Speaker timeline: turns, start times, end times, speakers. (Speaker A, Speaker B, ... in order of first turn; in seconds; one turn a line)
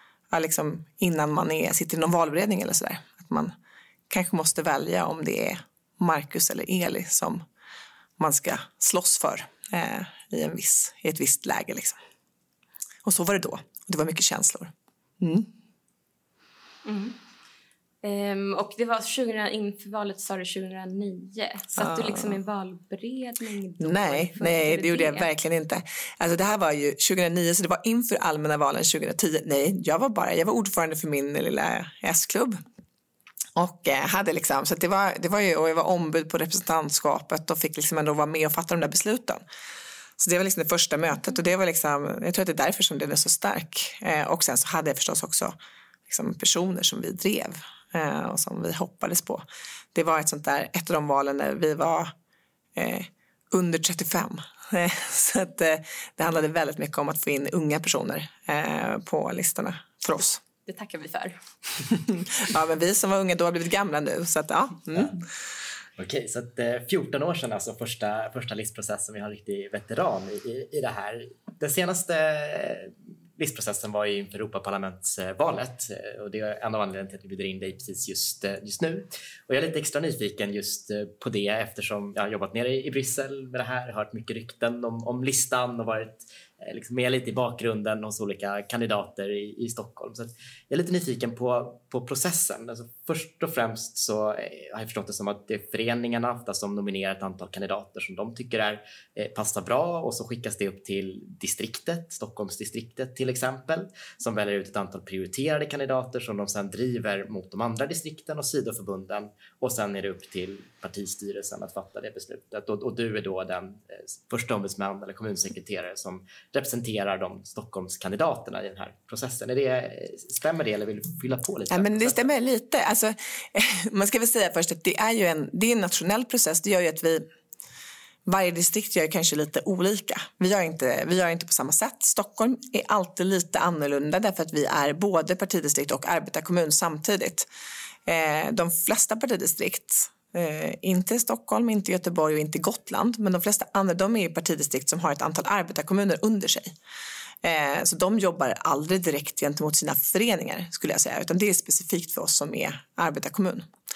Speaker A: 0.3-3.5
Speaker A: 4.1-7.4
Speaker A: 8.2-12.0
Speaker A: 13.0-15.5
Speaker B: 16.8-17.1
Speaker B: 18.0-25.3
Speaker A: 21.8-22.3
Speaker A: 23.8-32.6
Speaker A: 33.5-39.4
Speaker A: 40.2-45.5
Speaker A: 46.1-52.1
Speaker A: 52.7-60.4
Speaker B: 60.7-61.4
Speaker A: 61.9-65.2
Speaker C: 66.0-122.3
Speaker A: 121.7-127.3
Speaker A: 128.2-137.5
Speaker A: 138.1-146.7
Speaker A: 147.4-153.7